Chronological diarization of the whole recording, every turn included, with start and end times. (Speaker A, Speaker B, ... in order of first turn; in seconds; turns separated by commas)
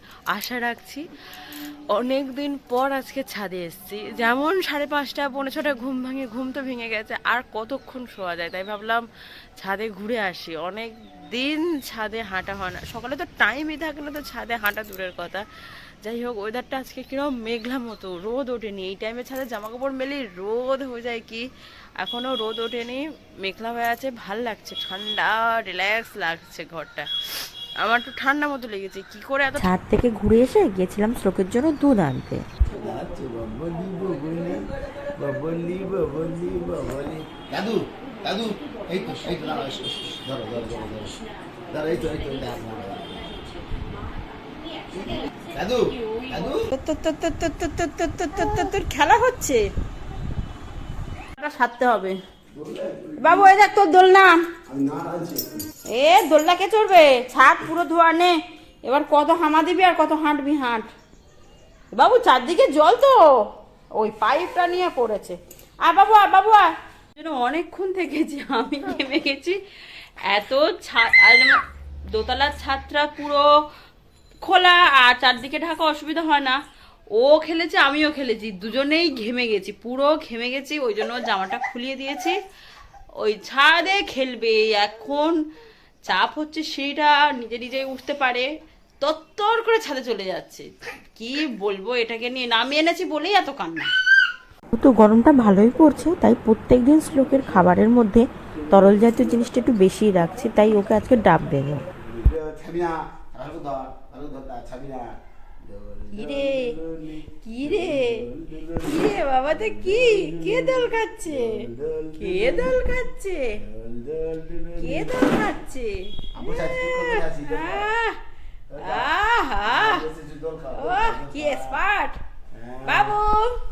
Speaker A: 0.3-1.0, Speaker A: 1.9-9.1, Speaker A: 9.6-15.4, Speaker A: 16.0-21.5, Speaker A: 22.0-27.1, Speaker A: 27.8-29.8, Speaker B: 29.6-32.5, Speaker C: 32.7-41.2, Speaker C: 41.7-43.4, Speaker C: 44.9-46.6, Speaker A: 46.7-49.6, Speaker A: 51.4-52.2, Speaker C: 52.5-53.5, Speaker A: 53.2-54.4, Speaker C: 54.7-55.7, Speaker A: 55.9-60.9, Speaker A: 61.9-63.3, Speaker A: 63.9-69.6, Speaker A: 70.2-71.6, Speaker A: 72.1-73.5, Speaker A: 74.4-76.6, Speaker A: 77.1-82.4, Speaker A: 83.2-85.4, Speaker A: 86.0-88.5, Speaker A: 89.0-93.9, Speaker B: 94.7-101.8, Speaker C: 98.7-99.5, Speaker C: 102.0-112.8, Speaker A: 106.1-106.8, Speaker A: 107.4-108.3, Speaker A: 108.8-111.7, Speaker A: 112.2-113.6, Speaker C: 113.6-115.5, Speaker A: 114.8-118.2, Speaker C: 116.3-117.9, Speaker C: 118.7-119.1, Speaker A: 118.8-120.0, Speaker C: 119.6-121.8, Speaker A: 120.7-122.2, Speaker C: 122.5-123.2, Speaker A: 122.8-123.5